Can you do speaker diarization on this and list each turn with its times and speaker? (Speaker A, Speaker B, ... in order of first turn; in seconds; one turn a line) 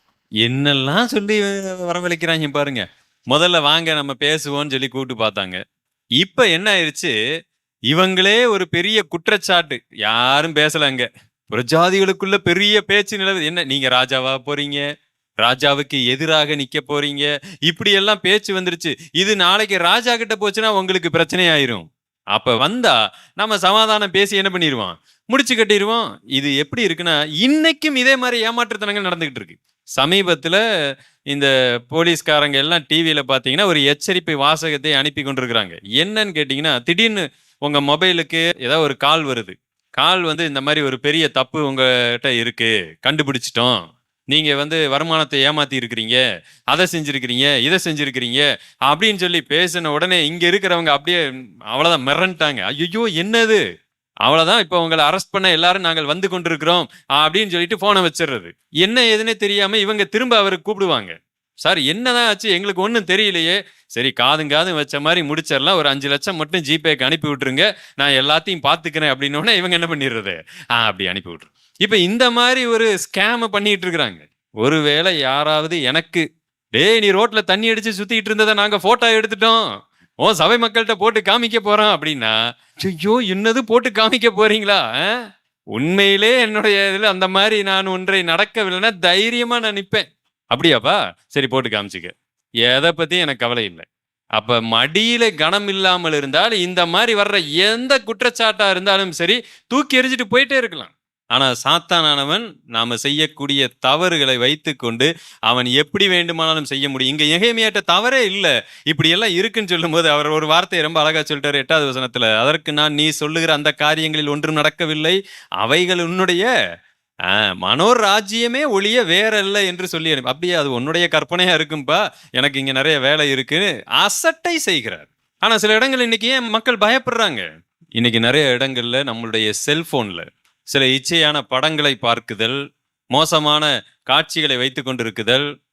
Speaker A: 0.4-5.6
Speaker A: 6.2-7.1
Speaker A: 7.9-14.8
Speaker A: 15.4-30.6
Speaker A: 31.3-46.2
Speaker A: 46.7-53.6
Speaker A: 54.2-76.2
Speaker A: 76.7-79.6
Speaker A: 80.2-85.2
Speaker A: 85.7-92.1
Speaker A: 92.7-116.5
Speaker A: 117.3-132.6
Speaker A: 133.1-135.4